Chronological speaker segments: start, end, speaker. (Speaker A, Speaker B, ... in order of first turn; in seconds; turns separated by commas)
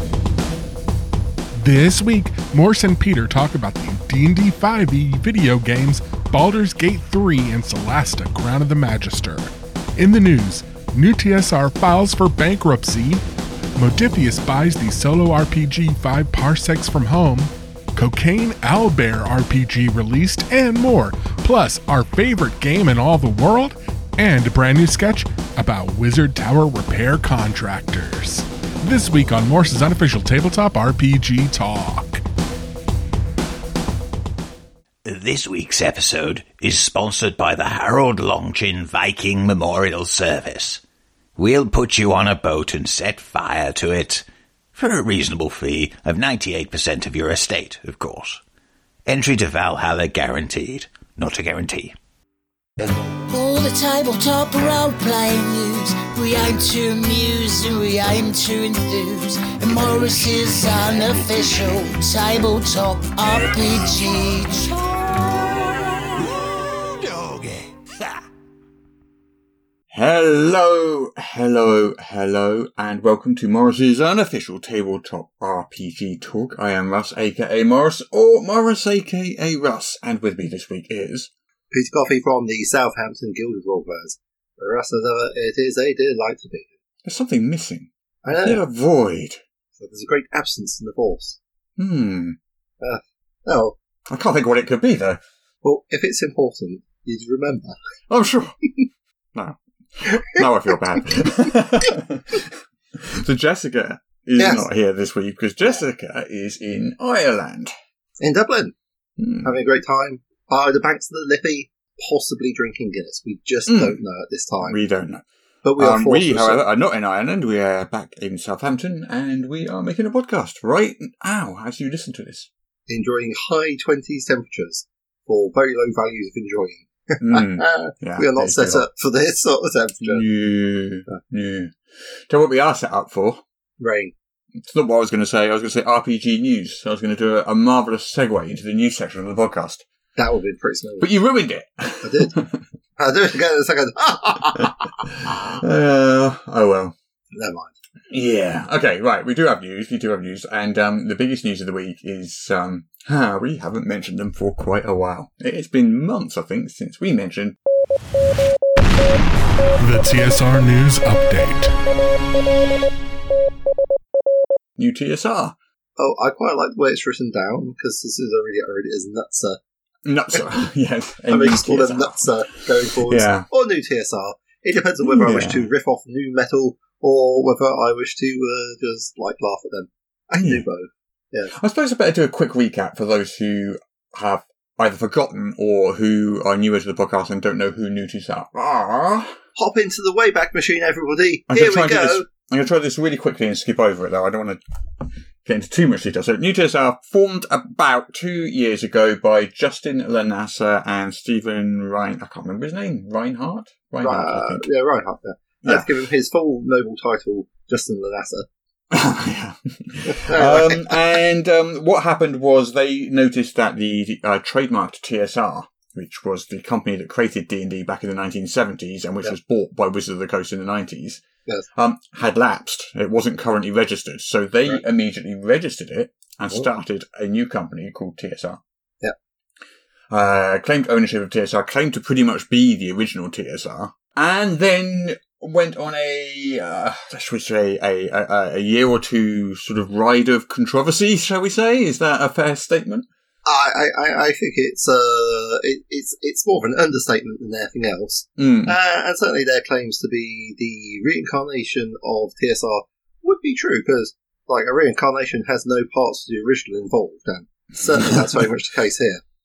Speaker A: 1.6-13.2, Speaker A: 13.8-32.2, Speaker B: 35.0-40.8, Speaker B: 41.4-48.4, Speaker B: 49.0-51.9, Speaker C: 53.3-64.7, Speaker B: 59.5-59.9, Speaker D: 69.9-81.3, Speaker E: 81.7-86.7, Speaker D: 87.0-89.4, Speaker E: 88.2-88.6, Speaker E: 89.8-91.4, Speaker D: 91.8-92.4, Speaker E: 92.8-93.8, Speaker D: 94.1-95.2, Speaker E: 95.6-97.7, Speaker D: 98.1-98.5, Speaker E: 100.1-100.4, Speaker D: 100.1-107.7, Speaker E: 104.4-104.7, Speaker E: 108.2-108.7, Speaker D: 109.2-109.5, Speaker E: 109.4-114.8, Speaker D: 113.7-114.0, Speaker D: 114.6-115.2, Speaker E: 115.6-116.6, Speaker D: 115.8-122.5, Speaker E: 122.9-130.2, Speaker D: 127.2-128.9, Speaker D: 130.0-131.7, Speaker D: 132.3-133.4, Speaker E: 133.8-134.1, Speaker D: 134.6-139.8, Speaker E: 140.2-141.1, Speaker D: 141.0-142.6, Speaker E: 142.0-142.3, Speaker E: 143.0-144.9, Speaker D: 144.6-147.0, Speaker E: 147.3-147.8, Speaker D: 148.1-157.6, Speaker A: 159.8-161.7, Speaker D: 164.8-165.6, Speaker E: 166.0-169.6, Speaker D: 170.1-172.3, Speaker E: 171.3-181.5, Speaker D: 172.8-173.5, Speaker D: 175.0-175.7, Speaker D: 180.4-180.7, Speaker D: 181.5-189.4, Speaker E: 189.6-192.2, Speaker D: 191.5-204.6, Speaker E: 204.0-208.5, Speaker D: 205.6-205.9, Speaker D: 208.9-221.2, Speaker E: 210.1-210.9, Speaker D: 221.8-228.6, Speaker D: 230.1-243.1, Speaker E: 243.5-259.2, Speaker D: 248.4-248.8, Speaker D: 257.9-258.4